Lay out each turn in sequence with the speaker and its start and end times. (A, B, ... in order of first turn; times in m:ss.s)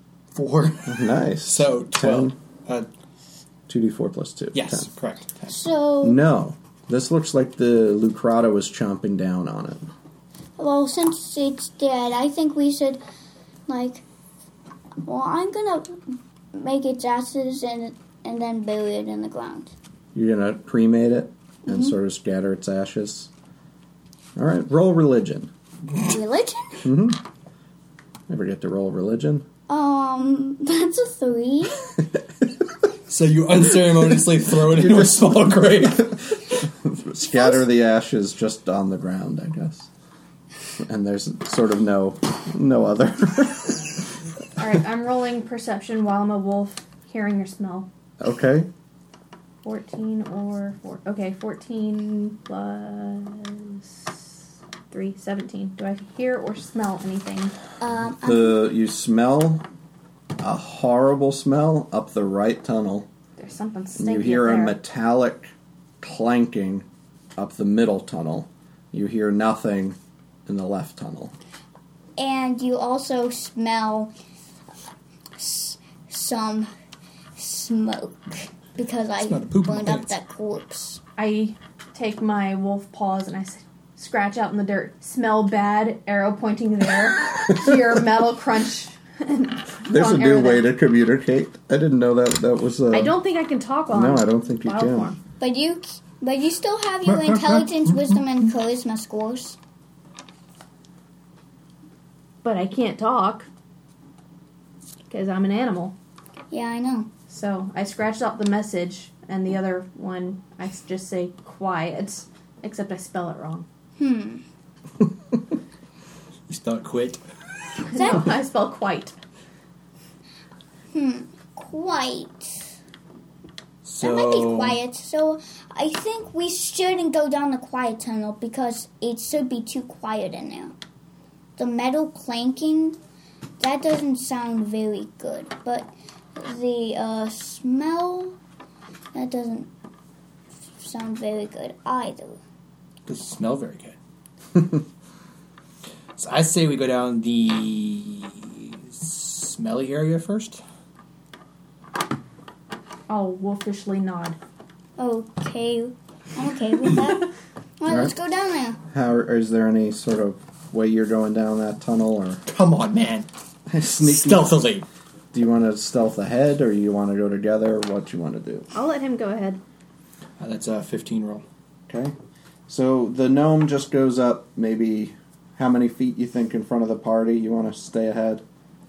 0:00.4-0:02.9 A
0:00.9-0:02.4 B
0:03.7-0:04.9 B
0:04.5-0:05.6 A
0:05.5-0:06.2 C
0:06.0-0:09.9 B
0:10.6-0:13.0 C
0:13.7-0:14.0 C
0:15.0-0:19.7 C
0:20.2-0:23.3 B
0:21.7-0:22.0 C
0:24.4-0:25.5 B
0:26.0-0:26.8 C
0:26.8-0:27.2 B
0:28.3-0:29.5 B
0:29.7-0:32.0 C
0:33.1-0:36.2 A
0:34.7-0:35.3 B
0:36.0-0:39.9 B
0:40.8-0:44.1 B
0:44.6-0:47.9 D
0:48.2-0:48.7 B
0:49.6-0:54.3 D
0:54.9-0:57.6 D
0:57.8-0:58.7 C
0:58.2-0:59.6 B
1:00.4-1:03.1 B
1:03.4-1:04.8 D
1:04.0-1:11.3 B
1:12.2-1:14.1 C
1:15.4-1:16.7 C
1:17.4-1:21.0 C
1:19.2-1:20.1 A
1:21.2-1:30.7 D
1:29.9-1:33.2 B
1:32.9-1:35.2 D
1:33.9-1:35.1 B
1:35.4-1:39.6 C
1:37.2-1:37.7 A
1:42.4-1:43.5 D
1:45.1-1:46.0 D
1:46.5-1:47.1 C
1:47.3-1:53.7 D
1:54.0-1:54.4 C
1:56.5-1:57.2 A
1:57.8-1:59.2 D
1:57.9-1:58.3 C
2:00.9-2:02.7 C
2:03.8-2:04.8 A
2:04.0-2:10.8 C
2:11.6-2:13.0 C
2:13.6-2:18.4 C
2:19.1-2:19.7 C
2:20.8-2:22.4 C
2:23.1-2:24.0 A
2:26.2-2:30.6 A
2:33.1-2:34.4 D
2:35.0-2:38.8 C
2:37.9-2:38.1 B
2:38.9-2:42.4 B
2:42.5-2:43.3 A
2:43.7-2:44.6 B
2:44.0-2:44.9 A
2:45.3-2:48.7 B
2:48.7-2:49.6 D
2:50.4-2:51.4 A
2:51.9-2:52.2 B
2:52.7-2:58.4 B